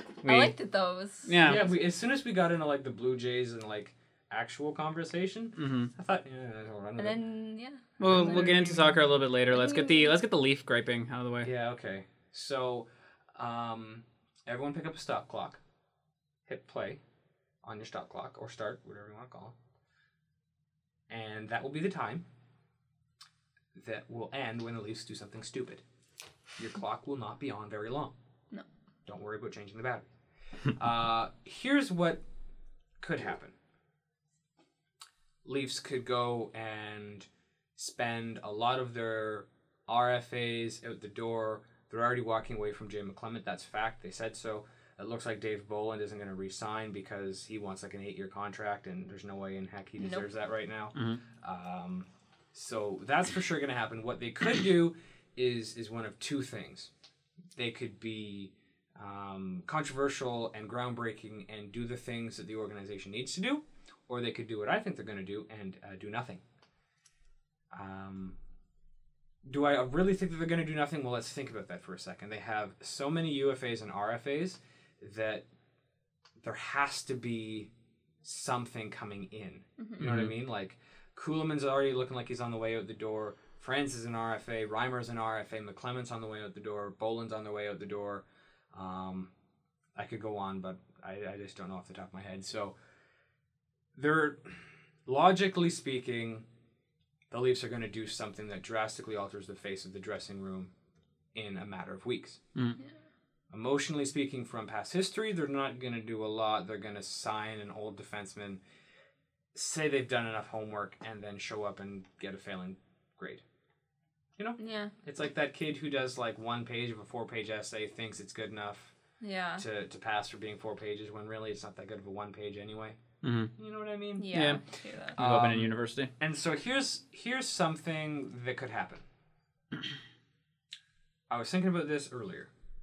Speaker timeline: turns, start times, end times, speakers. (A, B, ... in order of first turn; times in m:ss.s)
0:00.2-0:01.9 A
0:00.2-0:00.6 B
0:01.3-0:01.7 B
0:01.4-0:07.2 C
0:05.6-0:05.9 B
0:07.0-0:08.6 A
0:08.0-0:09.0 C
0:08.0-0:11.5 B
0:09.5-0:10.2 A
0:11.4-0:15.6 C
0:16.5-0:17.0 C
0:17.6-0:19.6 C
0:21.1-0:22.3 C
0:23.8-0:25.8 C
0:26.6-0:28.2 C
0:29.1-0:30.1 C
0:30.7-0:32.2 C
0:33.0-0:33.5 C
0:35.4-0:56.9 C
0:50.0-0:50.2 A
0:51.0-0:51.2 B
0:57.6-1:06.4 C
1:07.7-1:08.4 C
1:09.5-1:15.5 C
1:16.4-1:17.7 C
1:18.2-1:29.3 C
1:20.0-1:20.3 B
1:30.0-1:32.8 C
1:34.0-1:36.5 C
1:37.3-1:40.7 C
1:41.3-1:42.4 C
1:43.5-1:48.6 C
1:49.5-1:53.4 C
1:54.4-1:58.9 C
1:54.6-1:54.9 A
1:59.2-1:59.6 A
1:59.6-2:03.0 C
2:03.2-2:03.5 B
2:03.6-2:04.4 C
2:04.2-2:05.2 A
2:04.3-2:04.6 B
2:05.2-2:06.1 B
2:05.2-2:09.0 C
2:11.3-2:12.5 C